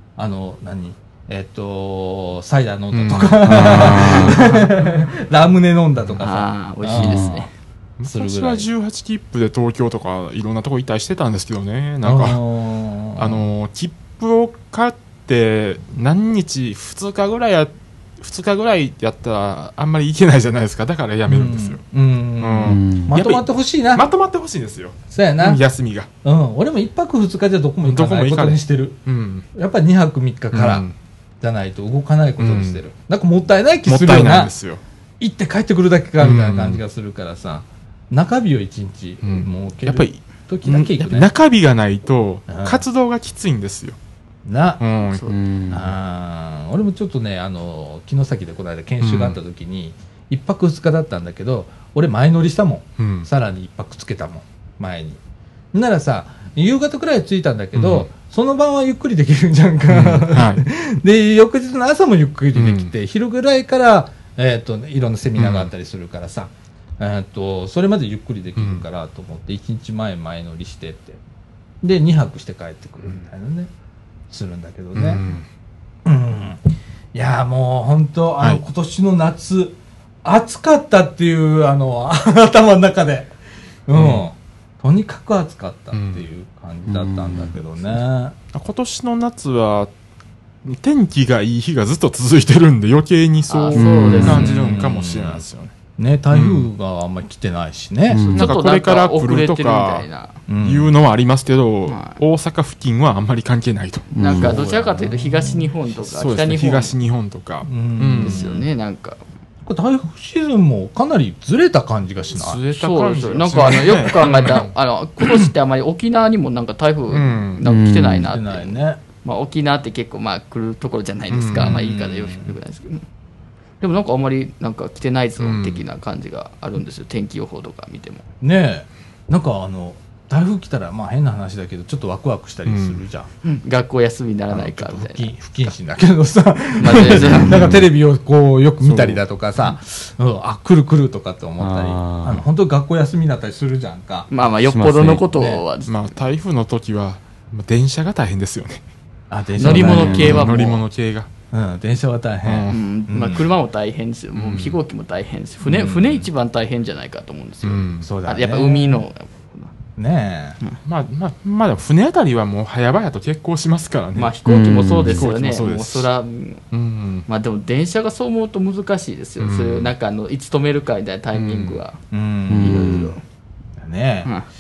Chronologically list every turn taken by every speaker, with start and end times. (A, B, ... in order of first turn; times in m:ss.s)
0:00.2-0:07.5 A
0:02.9-0:04.4 B
0:03.4-0:04.6 C
0:06.2-0:07.5 D
0:07.0-0:07.2 C
0:08.0-0:12.4 B
0:08.0-0:08.7 A
0:12.0-0:13.4 A
0:13.2-0:21.8 B
0:21.3-0:24.1 A
0:22.4-0:26.1 B
0:22.6-0:23.1 C
0:25.1-0:25.6 A
0:26.2-0:29.0 A
0:27.8-0:29.4 B
0:29.5-0:30.8 A
0:30.5-0:30.9 B
0:31.4-0:34.5 A
0:32.4-0:32.8 B
0:33.8-0:34.8 B
0:35.2-0:41.3 A
0:36.2-0:36.8 B
0:39.2-0:44.0 B
0:42.5-0:42.8 A
0:44.4-0:44.8 A
0:44.8-0:45.2 B
0:45.1-0:45.4 D
0:45.3-0:46.0 C
0:45.7-0:55.2 A
0:49.0-0:49.4 B
0:53.0-0:53.3 B
0:55.7-1:11.2 A
0:57.7-0:58.1 B
0:59.9-1:00.6 B
1:02.5-1:02.9 B
1:05.4-1:05.7 B
1:08.6-1:08.8 B
1:11.8-1:13.7 A
1:14.3-1:15.2 A
1:14.9-1:15.4 B
1:16.0-1:16.6 A
1:17.1-1:23.3 A
1:23.9-1:28.3 A
1:23.9-1:24.2 B
1:25.9-1:26.2 B
1:26.9-1:27.6 C
1:28.5-1:29.9 B
1:30.6-1:35.7 B
1:33.5-1:34.5 D
1:33.7-1:34.6 C
1:34.1-1:35.4 A
1:36.0-1:38.4 A
1:36.3-1:36.7 B
1:38.1-1:38.5 C
1:38.3-1:40.3 D
1:38.4-1:40.1 B
1:40.5-1:40.9 A
1:40.6-1:44.1 B
1:41.9-1:42.2 D
1:44.1-1:44.6 C
1:44.2-1:46.9 D
1:44.3-1:45.7 A
1:46.0-1:48.4 B
1:47.6-1:48.6 A
1:48.2-1:49.2 D
1:49.6-1:52.6 A
1:52.3-1:54.7 B
1:52.7-2:03.0 D
1:57.1-1:57.6 B
1:57.6-1:58.3 C
1:58.1-1:59.0 A
2:01.3-2:01.8 B
2:01.6-2:02.6 A
2:03.8-2:08.2 D
2:05.4-2:05.8 B
2:08.4-2:13.3 A
2:12.6-2:13.0 B
2:13.4-2:15.3 D
2:14.5-2:24.3 A
2:16.8-2:17.7 D
2:17.1-2:17.8 C
2:18.8-2:19.1 B
2:21.6-2:22.4 C
2:24.3-2:26.1 D
2:24.7-2:25.2 C
2:25.3-2:25.6 A
2:25.8-2:28.8 B
2:29.3-2:30.8 A
2:29.6-2:30.7 D
2:29.6-2:30.4 C
2:29.7-2:31.3 B
2:31.5-2:33.4 A
2:32.4-2:32.8 B
2:32.7-2:39.5 D
2:34.4-2:34.8 B
2:35.6-2:36.3 A
2:37.6-2:38.1 B
2:38.0-2:39.0 A
2:40.0-2:40.6 A
2:40.8-2:44.3 B
2:44.1-2:46.6 D
2:44.4-2:45.3 C
2:44.9-2:46.1 B
2:46.7-2:47.2 B
2:47.3-2:52.0 D
2:49.4-2:49.9 B
2:51.3-2:51.8 B
2:52.1-2:53.1 A
2:52.5-2:53.1 C
2:52.6-2:53.2 D
2:53.8-2:54.3 A